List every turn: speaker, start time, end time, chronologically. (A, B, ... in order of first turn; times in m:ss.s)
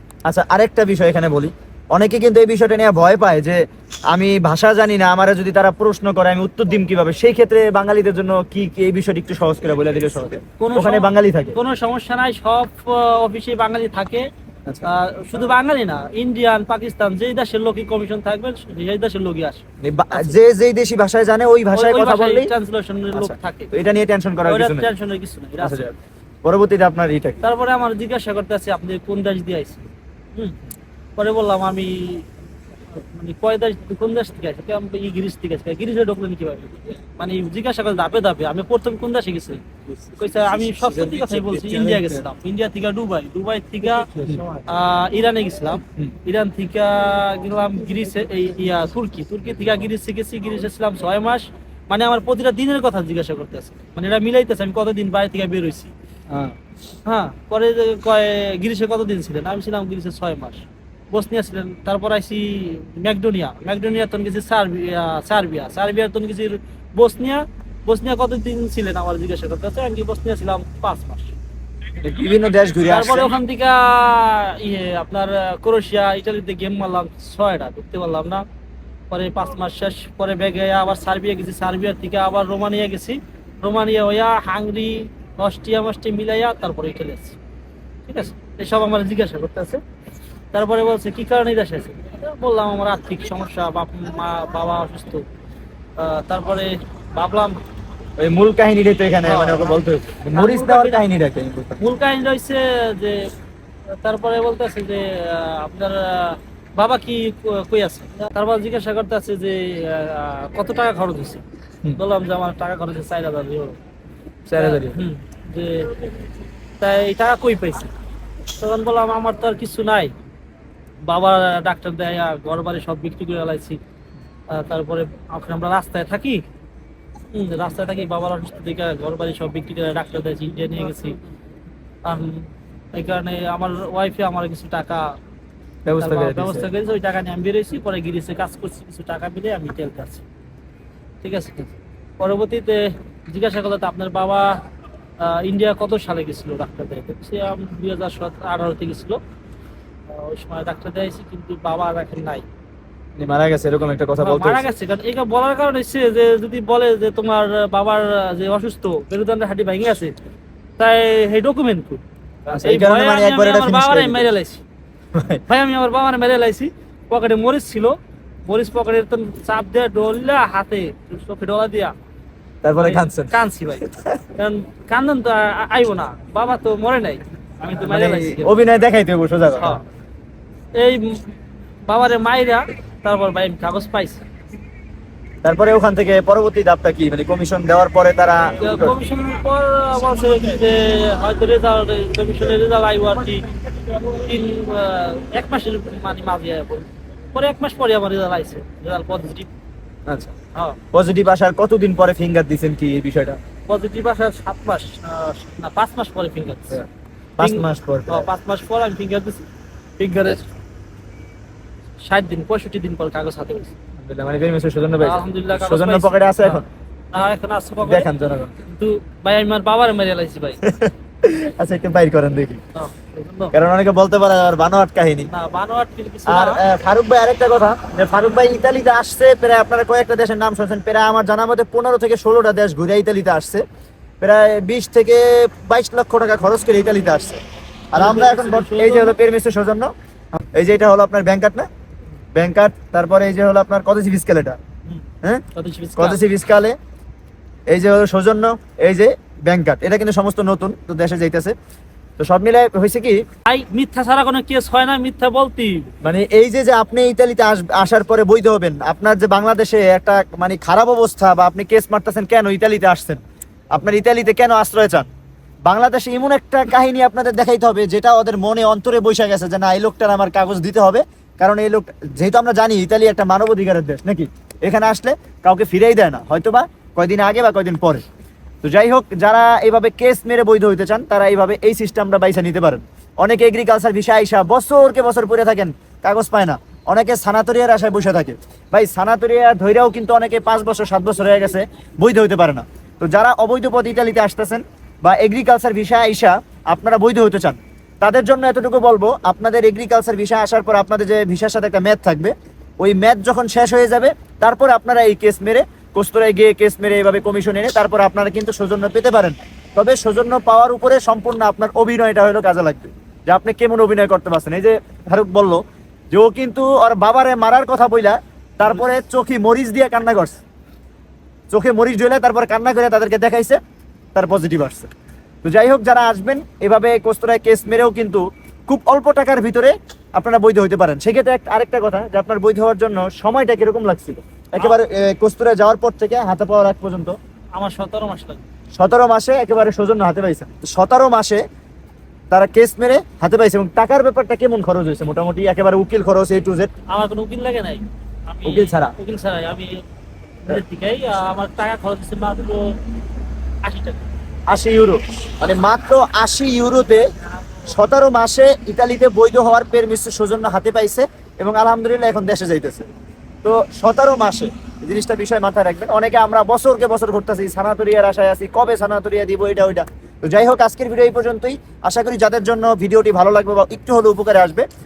0:00.2-0:11.6 A
0:10.6-0:14.3 B
0:14.8-0:19.6 B
0:19.8-0:22.5 A
0:21.7-0:23.7 B
0:23.1-0:24.9 A
0:24.4-0:25.8 B
0:25.6-0:27.4 A
0:27.4-0:30.6 B
0:31.2-0:32.3 B
0:32.9-0:39.6 B
0:40.0-0:42.2 A
0:40.1-0:44.1 B
0:44.0-0:44.6 A
0:44.6-0:55.9 B
0:56.3-0:56.6 A
0:57.0-1:11.3 B
1:12.0-1:13.3 A
1:12.8-1:18.4 B
1:19.1-1:27.4 B
1:28.1-1:29.8 B
1:30.5-1:35.2 B
1:36.0-1:37.6 B
1:38.2-1:41.8 A
1:39.2-1:39.8 B
1:40.3-1:41.0 B
1:41.8-1:43.3 B
1:43.9-1:53.8 B
1:54.4-1:55.0 A
1:54.5-1:56.1 B
1:56.8-1:57.9 B
1:58.6-2:00.1 B
2:01.0-2:03.8 B
2:04.5-2:06.4 B
2:07.3-2:11.2 B
2:12.0-2:15.1 B
2:15.8-2:16.7 A
2:16.0-2:20.2 B
2:21.2-2:24.6 B
2:25.2-2:29.2 B
2:30.1-2:32.4 B
2:33.2-2:34.7 A
2:34.2-2:40.1 B
2:40.8-2:42.0 B
2:42.5-2:44.3 A
2:42.6-2:44.6 B
2:45.1-2:45.4 A
2:45.5-2:51.9 B
2:52.6-2:54.2 A
2:52.8-2:58.5 B
2:57.8-2:59.8 A
3:00.7-3:01.3 B
3:01.8-3:04.2 B
3:05.4-3:09.0 A
3:08.6-3:19.5 B
3:20.1-3:20.3 A
3:20.9-3:23.4 A
3:23.7-3:26.8 B
3:27.4-3:28.3 A
3:27.4-3:29.4 B
3:30.0-3:30.5 B
3:32.0-3:33.7 B
3:34.0-3:36.6 A
3:35.0-3:38.1 B
3:37.8-3:38.5 A
3:38.6-3:40.6 B
3:40.6-3:42.6 A
3:42.7-3:43.5 B
3:43.5-3:45.3 A
3:45.3-3:46.6 B
3:46.3-3:53.6 A
3:54.2-3:57.4 A
3:57.9-3:59.2 B
3:57.9-3:59.9 A
4:00.5-4:01.7 A
4:02.3-4:04.6 A
4:05.5-4:06.2 B
4:06.0-4:06.8 A
4:07.7-4:11.5 A
4:12.2-4:13.2 A
4:13.5-4:15.9 B
4:16.0-4:25.1 A
4:25.6-4:38.0 A
4:38.6-5:20.4 A
5:21.5-5:23.6 A
5:24.1-5:24.9 A
5:25.4-5:37.2 A
5:37.6-5:38.4 B
5:38.8-5:41.4 A
5:42.3-5:46.7 A
5:46.9-5:49.8 B
5:48.4-5:48.9 A
5:50.4-5:52.8 B
5:53.6-5:54.1 B
5:54.5-5:57.0 A
5:57.6-6:02.9 A
6:03.4-6:14.6 A